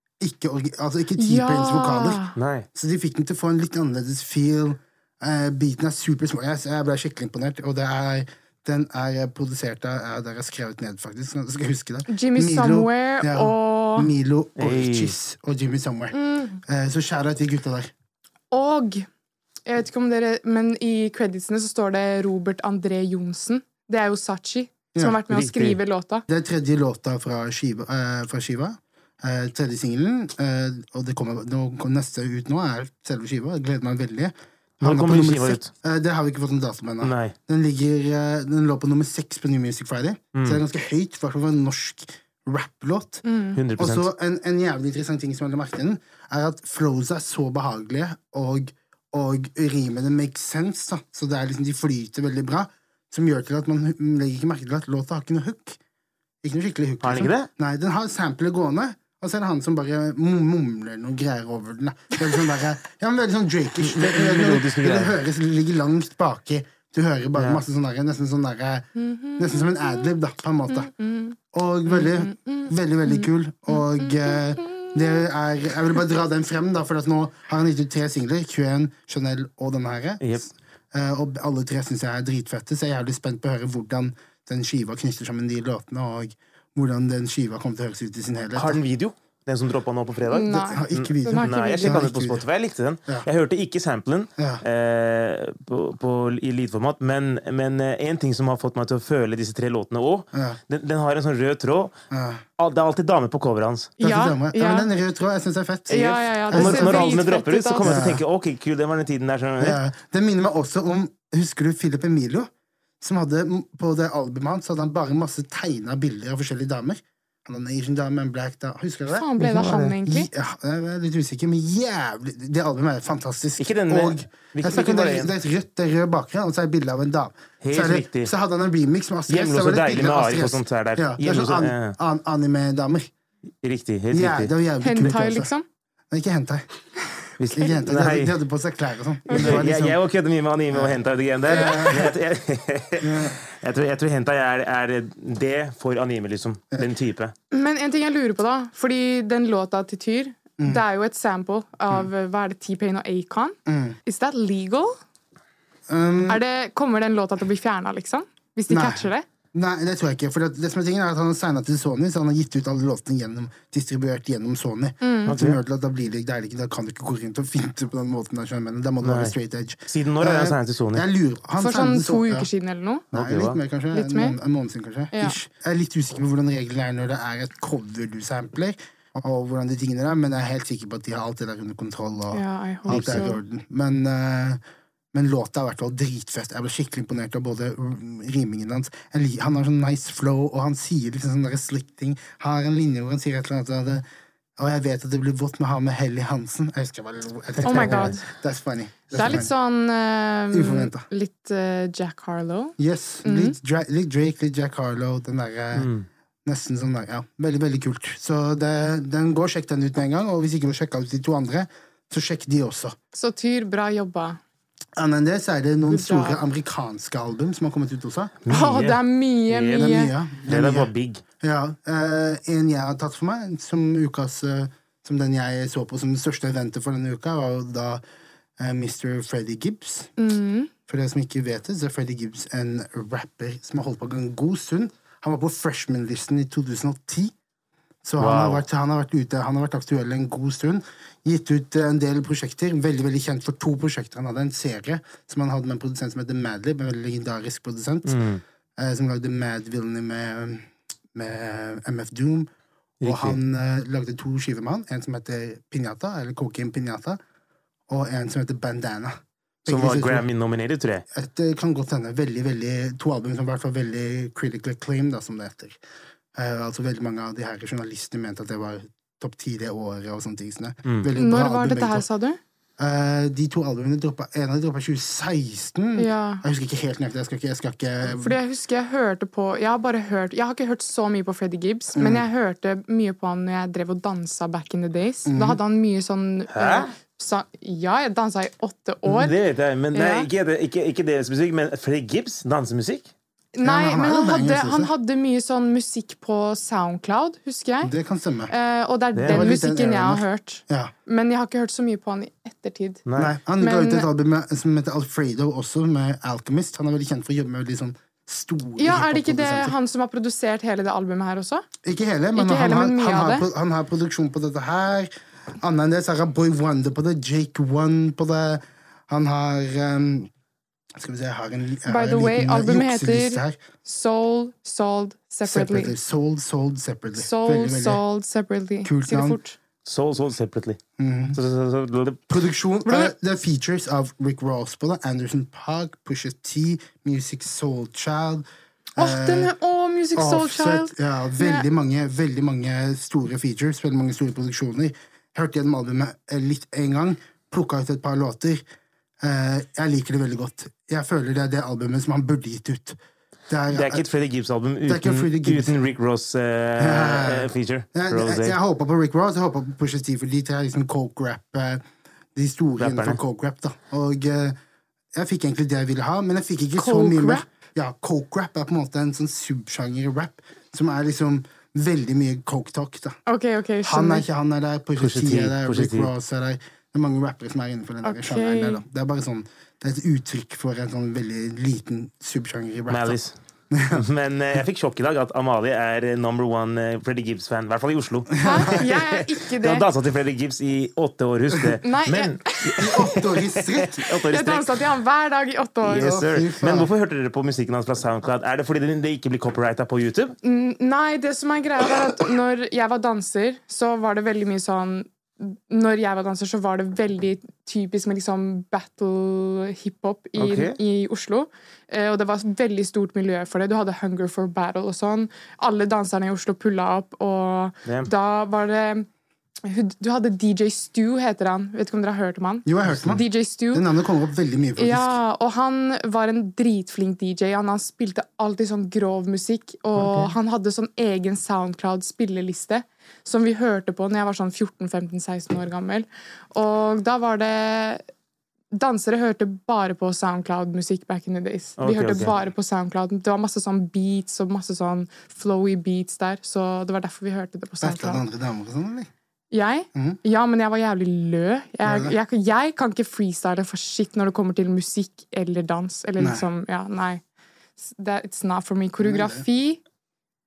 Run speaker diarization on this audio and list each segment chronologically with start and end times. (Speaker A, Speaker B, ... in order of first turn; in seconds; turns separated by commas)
Speaker A: 0.2-2.2, Speaker B: 1.2-2.3, Speaker C: 2.4-2.7, Speaker A: 2.7-17.9, Speaker B: 12.1-14.1, Speaker C: 14.6-15.1, Speaker B: 16.1-16.6, Speaker B: 18.5-19.1, Speaker B: 19.7-26.2, Speaker A: 24.9-25.2, Speaker C: 25.3-25.8, Speaker A: 26.3-43.2, Speaker C: 34.8-35.7, Speaker C: 37.0-37.4, Speaker C: 40.4-40.6, Speaker B: 43.2-43.6, Speaker C: 43.5-44.1, Speaker A: 43.8-55.8, Speaker A: 56.4-70.9, Speaker C: 57.0-57.5, Speaker C: 63.8-65.2, Speaker C: 67.4-67.6, Speaker B: 69.0-70.1, Speaker B: 70.7-71.4, Speaker A: 71.5-80.4, Speaker B: 71.9-75.0, Speaker A: 80.9-88.8, Speaker C: 88.5-101.9, Speaker B: 90.3-92.0, Speaker A: 90.5-92.4, Speaker A: 94.4-94.6, Speaker A: 100.3-100.6, Speaker A: 102.1-102.4, Speaker C: 102.6-104.0, Speaker B: 104.0-104.9, Speaker A: 104.0-107.2, Speaker B: 105.9-108.0, Speaker C: 105.9-109.8, Speaker A: 107.8-108.2, Speaker A: 109.6-112.5, Speaker A: 113.0-133.1, Speaker B: 119.1-120.3, Speaker C: 119.4-119.9, Speaker C: 123.6-125.3, Speaker C: 127.6-128.3, Speaker C: 129.3-132.0, Speaker C: 133.6-134.5, Speaker A: 134.1-135.5, Speaker B: 134.8-135.7, Speaker A: 136.1-136.7, Speaker C: 137.4-138.4, Speaker A: 137.6-140.0, Speaker B: 139.3-139.6, Speaker C: 139.3-147.3, Speaker A: 140.7-142.1, Speaker B: 141.5-142.1, Speaker A: 143.0-143.4, Speaker B: 147.5-155.0, Speaker A: 153.7-154.0, Speaker A: 155.9-156.4, Speaker B: 156.3-159.2, Speaker A: 158.7-172.5, Speaker B: 165.0-165.3, Speaker C: 165.3-165.6, Speaker C: 169.0-169.3, Speaker C: 169.9-171.1, Speaker B: 171.6-173.1, Speaker A: 173.1-184.6, Speaker C: 173.1-173.6, Speaker B: 173.9-174.4, Speaker B: 182.3-183.4, Speaker C: 182.9-183.2, Speaker A: 185.1-194.0, Speaker A: 194.6-199.5, Speaker B: 197.6-198.2, Speaker C: 197.7-198.1, Speaker B: 199.1-203.6, Speaker A: 200.5-201.1, Speaker A: 202.8-205.9, Speaker C: 205.8-206.1, Speaker A: 206.5-213.0, Speaker B: 213.1-214.4, Speaker A: 215.0-218.4, Speaker B: 215.9-216.4, Speaker C: 218.4-221.2, Speaker B: 218.5-220.1, Speaker A: 219.7-228.0, Speaker A: 228.6-230.1, Speaker B: 230.2-230.7, Speaker A: 230.9-237.3, Speaker A: 238.0-248.2, Speaker C: 238.2-238.7, Speaker C: 248.1-248.4, Speaker A: 248.8-252.5, Speaker C: 253.0-253.4, Speaker A: 253.0-257.2, Speaker A: 257.9-260.3, Speaker C: 259.7-261.1, Speaker A: 261.1-265.8, Speaker A: 266.4-272.0, Speaker B: 271.2-272.4, Speaker A: 272.8-278.4, Speaker B: 276.0-276.4, Speaker B: 278.1-289.4, Speaker A: 282.0-282.2, Speaker A: 285.3-285.6, Speaker C: 286.5-286.9, Speaker C: 289.1-293.1, Speaker B: 289.9-290.3, Speaker B: 293.6-297.9, Speaker A: 293.6-294.9, Speaker A: 297.8-298.5, Speaker B: 298.5-303.1, Speaker C: 299.2-299.5, Speaker A: 299.3-300.9, Speaker C: 303.1-303.3, Speaker A: 303.2-309.8, Speaker B: 303.6-304.1, Speaker B: 308.8-311.7, Speaker A: 311.8-320.3, Speaker B: 312.4-313.5, Speaker A: 321.0-323.6, Speaker B: 321.9-325.9, Speaker A: 325.4-328.0, Speaker B: 327.2-329.6, Speaker A: 328.8-329.4, Speaker C: 329.9-330.8, Speaker A: 331.0-331.4, Speaker C: 331.3-332.2, Speaker A: 332.3-338.4, Speaker B: 332.9-333.1, Speaker B: 339.0-341.7, Speaker A: 339.0-339.5, Speaker A: 340.2-348.6, Speaker A: 349.2-353.0, Speaker A: 353.5-354.1, Speaker C: 353.7-358.6, Speaker A: 354.9-355.8, Speaker A: 356.8-361.8, Speaker A: 362.4-364.6, Speaker C: 362.8-363.2, Speaker A: 365.1-373.2, Speaker B: 366.8-367.4, Speaker B: 373.3-374.3, Speaker A: 373.8-383.2, Speaker C: 375.0-376.1, Speaker B: 378.0-378.8, Speaker C: 382.9-383.3, Speaker A: 383.7-384.1, Speaker C: 383.9-394.8, Speaker A: 388.4-388.9, Speaker B: 388.4-389.9, Speaker B: 391.8-392.9, Speaker A: 392.8-394.0, Speaker B: 394.1-396.2, Speaker A: 395.9-396.9, Speaker C: 395.9-400.4, Speaker B: 400.4-419.1, Speaker C: 410.4-410.8, Speaker B: 419.6-423.9, Speaker A: 422.7-425.2, Speaker C: 422.9-423.2, Speaker B: 424.8-438.0, Speaker A: 430.0-430.3, Speaker B: 438.7-448.2, Speaker C: 441.8-442.3, Speaker A: 447.8-449.1, Speaker B: 449.5-457.2, Speaker A: 449.9-450.2, Speaker A: 451.8-452.2, Speaker A: 456.2-456.4, Speaker B: 457.8-459.8, Speaker A: 459.0-459.4